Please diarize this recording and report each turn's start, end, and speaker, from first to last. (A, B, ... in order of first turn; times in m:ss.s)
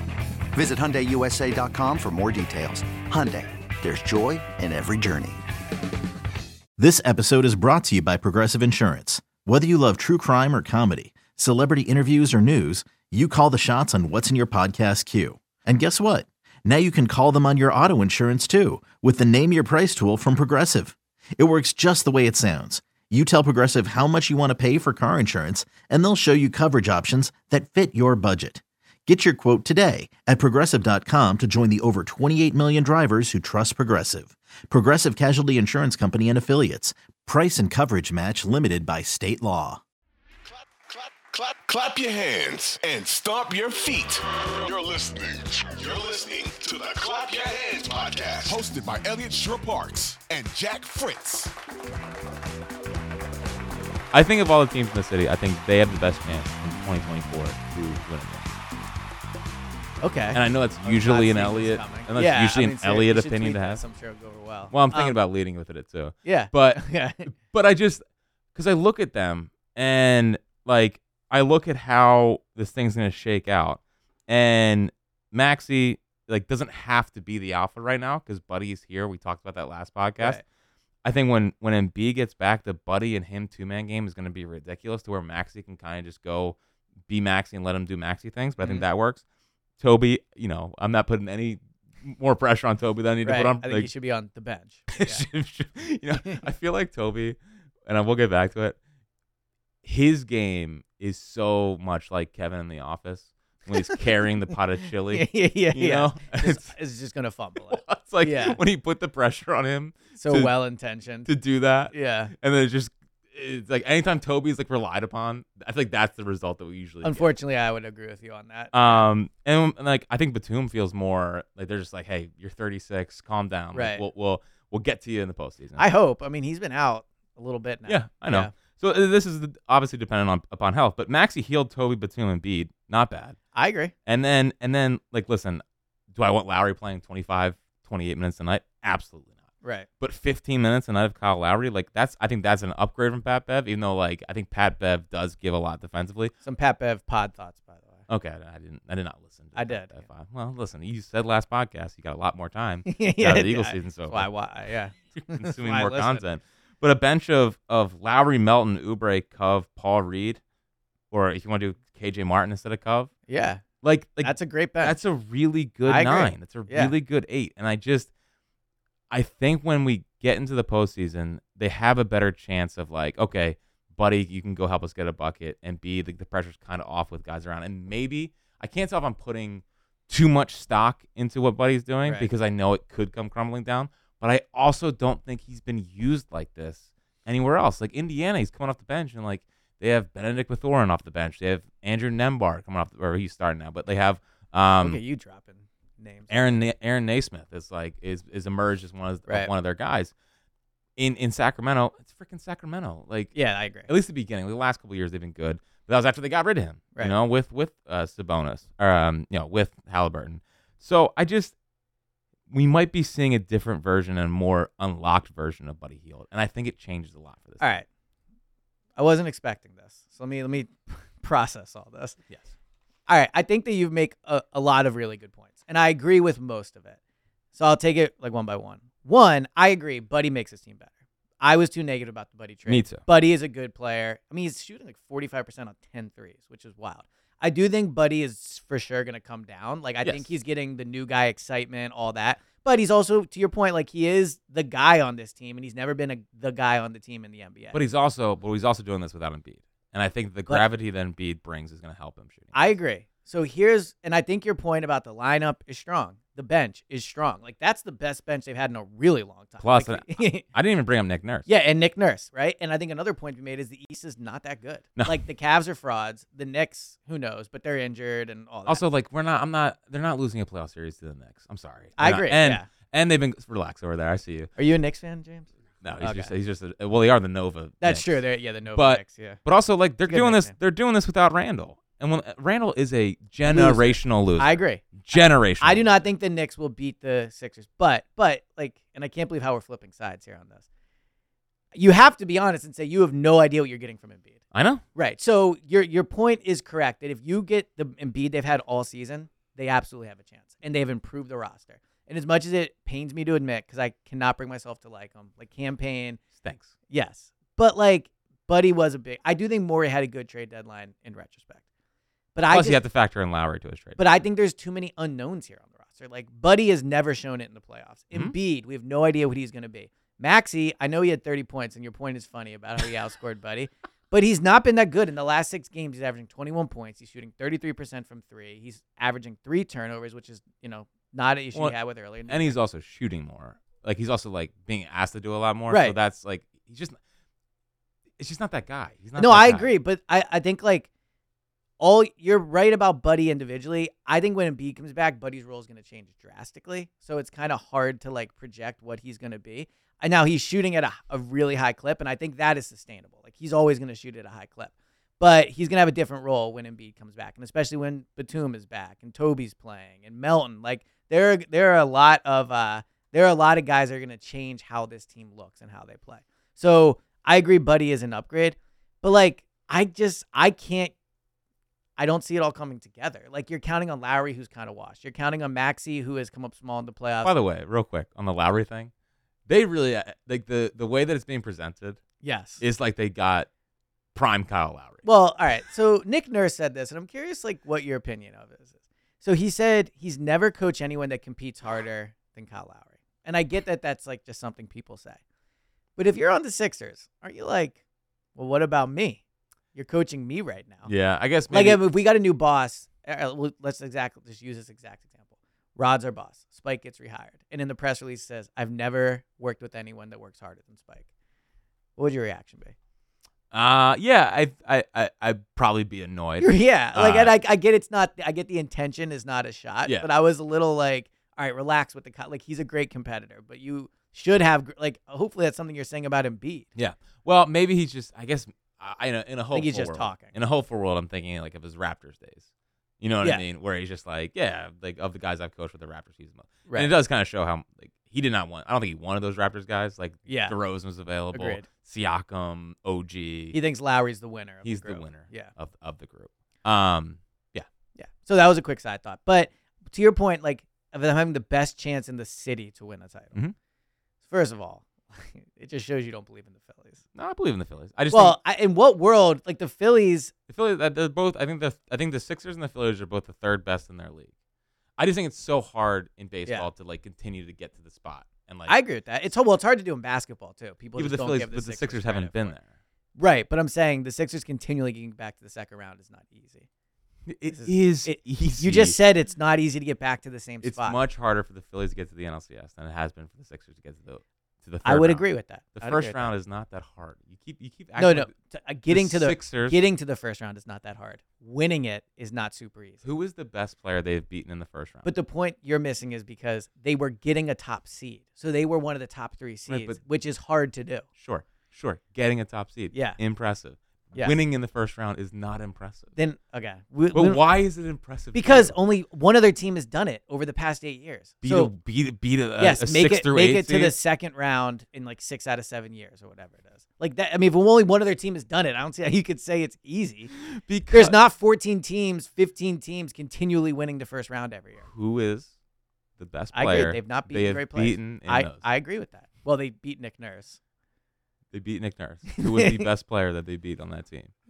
0:00.5-0:05.4 A
0:06.8-0:39.8 B
0:41.3-0:51.5 C
0:54.1-0:58.5 D
1:00.0-1:05.2 E
1:00.3-1:03.8 D
1:04.7-1:20.4 D
1:06.2-1:07.3 E
1:21.0-1:26.6 D
1:27.1-1:29.2 D
1:29.8-1:33.9 D
1:33.2-1:35.2 E
1:34.9-1:38.8 D
1:39.8-1:46.7 D
1:45.1-1:48.6 E
1:47.7-1:50.5 D
1:50.2-1:51.3 E
1:51.2-1:57.3 D
1:51.9-1:52.3 E
1:57.0-1:59.1 E
1:58.7-2:05.8 D
2:03.7-2:04.0 E
2:05.8-2:08.5 E
2:07.9-2:13.4 D
2:13.5-2:13.9 E
2:14.1-2:19.4 D
2:20.0-2:26.3 D
2:26.4-2:28.0 E
2:28.1-2:34.3 D
2:29.6-2:30.0 E
2:32.8-2:36.3 E
2:35.3-2:40.4 D
2:41.1-2:43.1 D
2:43.3-2:43.6 E
2:43.8-2:48.1 D
2:44.2-2:45.0 E
2:45.8-2:46.9 E
2:49.1-3:15.0 D
3:02.0-3:02.3 E
3:14.8-3:16.6 E
3:16.3-3:20.1 D
3:21.0-3:23.4 D
3:23.3-3:23.9 E
3:23.9-3:31.6 D
3:32.5-3:37.8 D
3:37.6-3:37.8 E
3:39.0-3:42.2 E
3:43.1-3:47.0 E
3:47.5-4:07.8 E
3:52.7-3:53.0 D
4:07.7-4:12.7 D
4:12.5-4:20.4 E
4:19.6-4:21.5 D
4:21.5-4:28.8 E
4:28.7-4:34.5 D
4:32.0-4:32.7 E
4:34.6-4:36.3 E
4:35.8-4:45.9 D
4:37.8-4:39.4 E
4:40.1-4:40.6 E
4:43.4-4:50.6 E
4:51.7-4:54.4 E
4:54.5-4:54.8 D
4:55.0-5:06.2 E
5:06.4-5:06.7 D
5:06.9-5:11.6 E
5:12.4-5:12.8 E
5:12.5-5:14.1 D
5:14.0-5:32.6 E
5:31.5-5:37.0 D
5:35.7-5:36.0 E
5:38.2-5:39.7 D
5:39.2-5:40.9 E
5:41.8-6:10.9 E
6:12.0-6:17.3 E
6:17.2-6:18.9 D
6:19.5-6:22.0 D
6:22.2-6:22.6 E
6:22.6-6:23.5 D
6:24.2-6:25.1 D
6:25.0-6:35.2 E
6:36.0-6:37.8 E
6:38.4-6:39.2 E
6:39.7-6:40.9 E
6:40.9-6:41.8 D
6:41.5-6:45.2 E
6:45.8-6:51.1 E
6:52.0-6:52.7 E
6:53.5-6:57.4 D
6:56.4-7:06.7 E
7:06.8-7:12.5 D
7:09.5-7:10.3 E
7:13.0-7:23.6 D
7:20.3-7:20.6 E
7:21.3-7:21.7 E
7:23.5-7:25.5 E
7:24.6-7:27.7 D
7:28.0-7:33.4 E
7:34.2-7:37.0 E
7:37.2-7:38.4 D
7:38.1-7:40.3 E
7:40.5-7:44.3 D
7:45.0-7:48.8 D
7:48.7-7:52.6 E
7:51.0-7:52.7 D
7:53.2-7:56.7 E
7:57.3-7:59.0 D
7:57.5-8:01.0 E
8:00.6-8:05.2 D
8:04.8-8:06.3 E
8:05.8-8:08.3 D
8:08.0-8:13.0 E
8:08.9-8:09.8 D
8:13.0-8:15.1 D
8:15.0-8:21.1 E
8:19.7-8:20.0 D
8:21.2-8:26.1 D
8:22.9-8:23.2 E
8:26.2-8:27.4 E
8:27.1-8:28.8 D
8:28.3-8:31.7 E
8:31.4-8:33.9 D
8:32.6-8:40.3 E
8:40.3-8:41.2 D
8:40.9-8:44.8 E
8:44.8-8:45.5 D
8:46.2-8:48.6 D
8:46.5-8:50.6 E
8:51.5-8:54.3 D
8:52.3-8:52.9 E